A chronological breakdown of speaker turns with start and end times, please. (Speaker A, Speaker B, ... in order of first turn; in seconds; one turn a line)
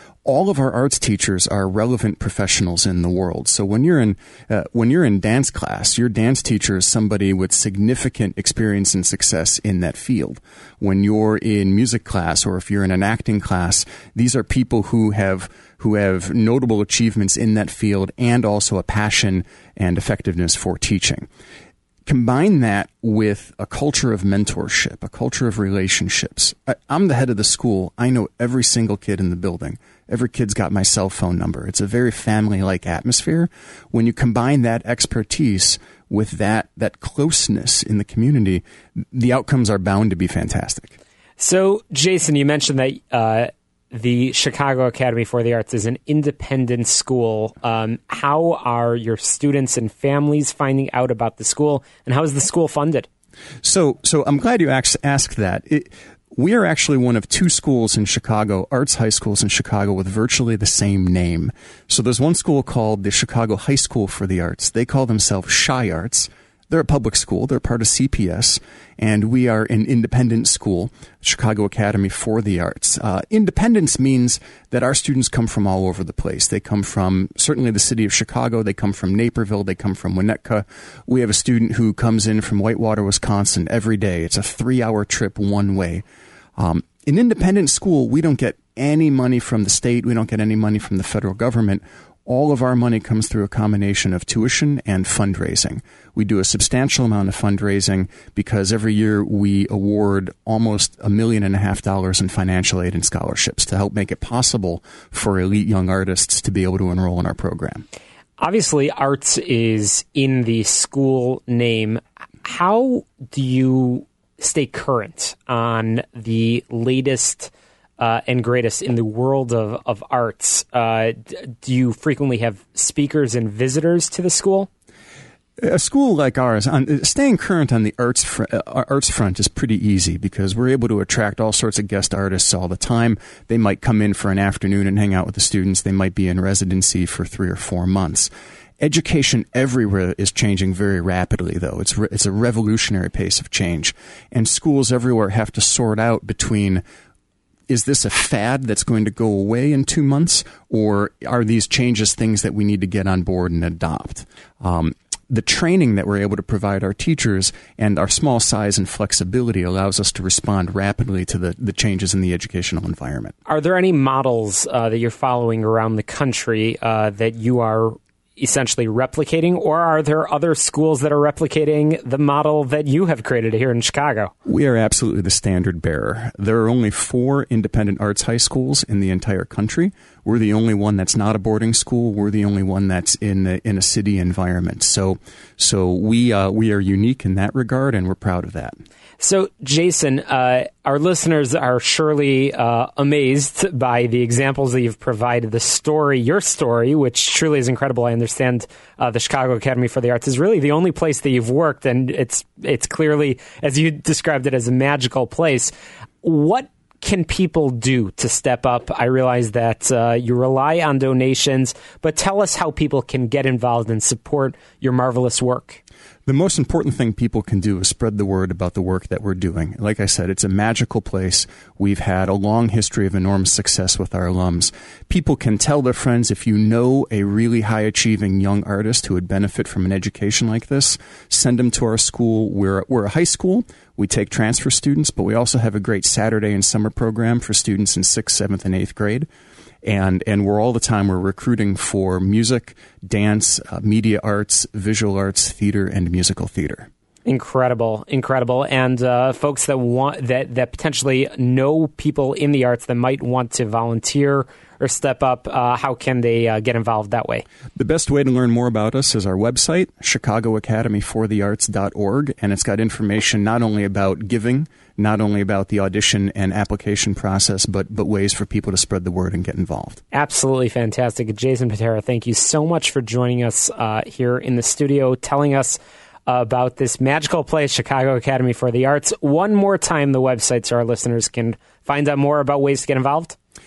Speaker A: 0.2-21.3
Speaker A: 22.1-41.0
Speaker B: 41.4-53.1
Speaker A: 53.6-86.0
Speaker A: 86.6-107.8
Speaker B: 108.4-124.7
Speaker A: 125.6-138.3
Speaker A: 138.8-146.8
Speaker A: 147.7-163.3
Speaker B: 163.5-174.3
Speaker A: 174.4-188.8
Speaker B: 189.2-215.8
Speaker A: 216.2-239.3
Speaker A: 239.8-246.9
Speaker B: 247.2-257.4
Speaker A: 257.8-270.0
Speaker B: 270.1-283.4